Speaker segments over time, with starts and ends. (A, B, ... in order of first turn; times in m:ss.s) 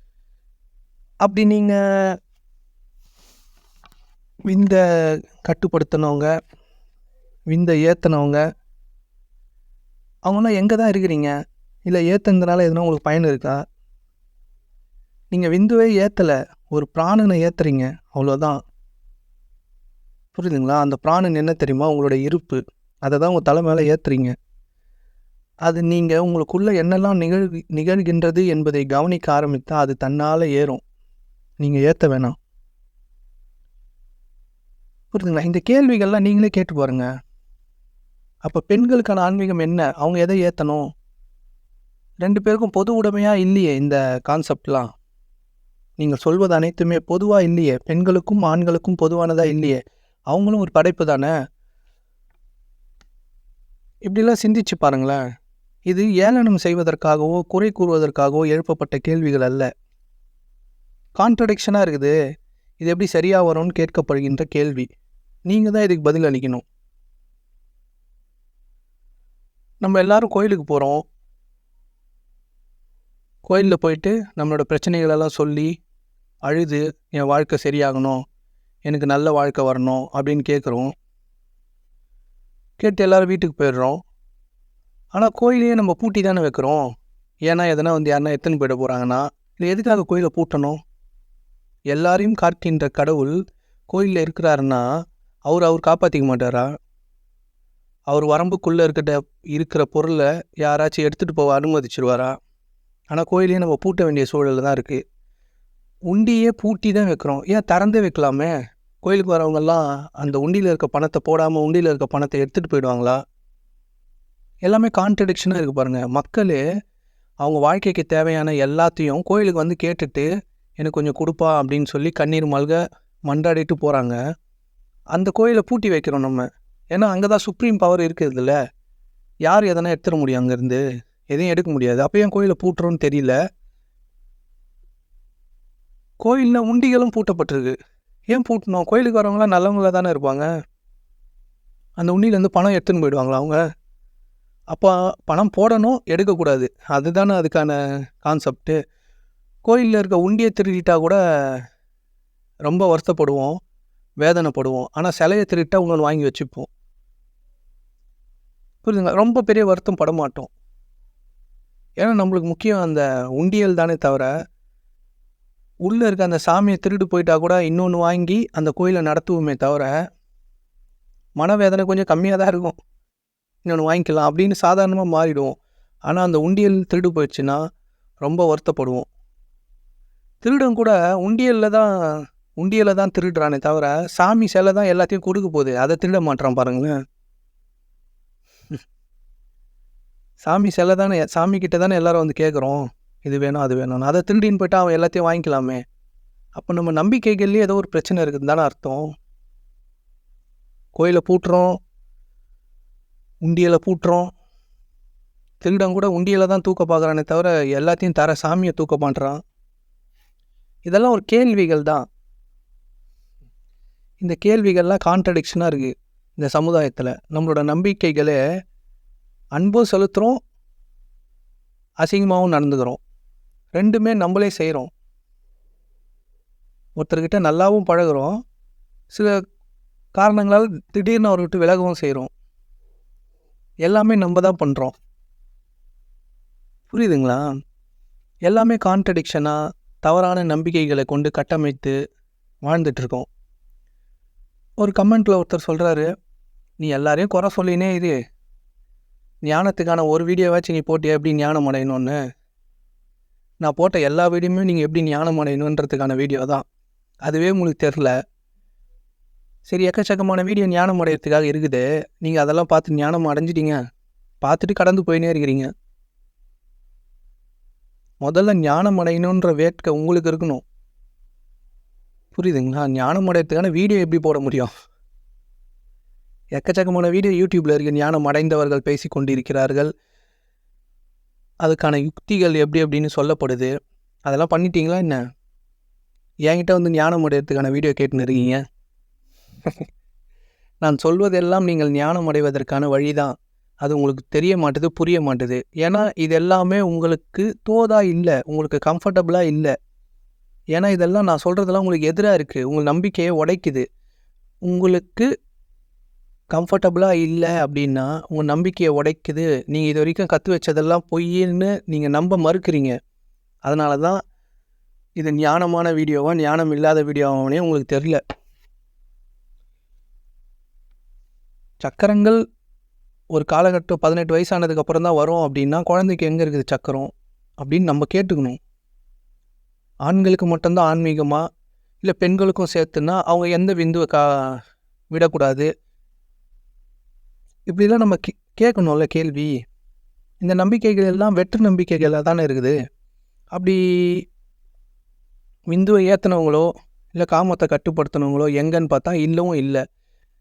0:01.2-0:01.8 A
0:04.5-0:04.8 A
0:05.4-0:06.3 A
0:07.5-0:08.4 A
0:10.3-0:11.3 A
0:11.9-0:13.6 A
0:15.3-0:18.6 A
0:20.3-0:24.3 A
0:25.6-0:30.8 A
0:31.6-0:32.3 A
0:35.1-0:37.0 A
0:38.4-0:40.8 A
0:42.2-0:44.9 A
0:46.0-0:49.8 A
0:50.3-0:51.3 A
0:54.0-0:55.2 A
0:55.9-0:59.7 A
1:01.2-1:02.1 A
1:02.8-1:04.9 A
1:05.5-1:06.6 A
1:09.8-1:11.0 A
1:13.4-1:15.7 A
1:16.4-1:18.2 A
1:18.9-1:20.9 A
1:22.8-1:24.0 A
1:25.1-1:26.8 A
1:27.5-1:30.8 A
1:31.9-1:33.3 A
1:33.9-1:34.8 A
1:35.5-1:36.7 A
1:38.1-1:42.4 A
1:43.1-1:45.0 A
1:46.1-1:48.5 A
1:49.0-1:53.2 A
1:54.6-1:56.6 A
1:57.4-2:00.3 A
2:00.8-2:04.2 A
2:05.1-2:08.6 A
2:09.4-2:13.3 A
2:16.2-2:17.7 A
2:18.3-2:20.4 A
2:22.0-2:23.6 A
2:24.7-2:28.8 A
2:29.6-2:31.2 A
2:32.6-2:33.6 A
2:34.2-2:36.7 A
2:38.8-2:40.5 A
2:42.0-2:44.3 A
2:45.8-2:49.9 A
2:51.4-2:52.8 A
2:53.6-2:55.5 A
2:56.1-2:57.6 A
2:58.2-2:59.0 A
3:00.4-3:01.9 A
3:02.6-3:06.9 A
3:10.4-3:15.8 A
3:16.5-3:19.0 A
3:21.0-3:21.7 A
3:23.4-3:24.3 A
3:25.6-3:29.4 A
3:30.9-3:32.0 A
3:34.2-3:38.4 A
3:39.5-3:40.4 A
3:42.0-3:43.0 A
3:43.7-3:44.9 A
3:47.0-3:48.4 A
3:50.2-3:52.3 A
3:53.8-3:54.9 A
3:56.9-3:57.4 A
3:58.4-4:02.0 A
4:02.6-4:03.3 A
4:04.8-4:06.0 A
4:06.8-4:08.2 A
4:09.4-4:12.2 A
4:13.6-4:16.6 A
4:17.2-4:18.1 A
4:19.7-4:23.8 A
4:24.4-4:25.7 A
4:28.2-4:30.6 A
4:32.3-4:34.7 A
4:36.5-4:39.9 A
4:41.6-4:43.7 A
4:44.3-4:45.2 A
4:46.5-4:48.6 A
4:50.8-4:59.7 A
5:00.7-5:03.8 A
5:04.6-5:05.3 A
5:06.5-5:12.9 A
5:13.6-5:14.2 A
5:15.2-5:18.2 A
5:21.8-5:22.4 A
5:23.3-5:28.6 A
5:30.1-5:31.4 A
5:32.0-5:34.5 A
5:35.1-5:35.7 A
5:37.7-5:39.5 A
5:40.4-5:42.7 A
5:43.5-5:44.2 A
5:45.7-5:49.8 A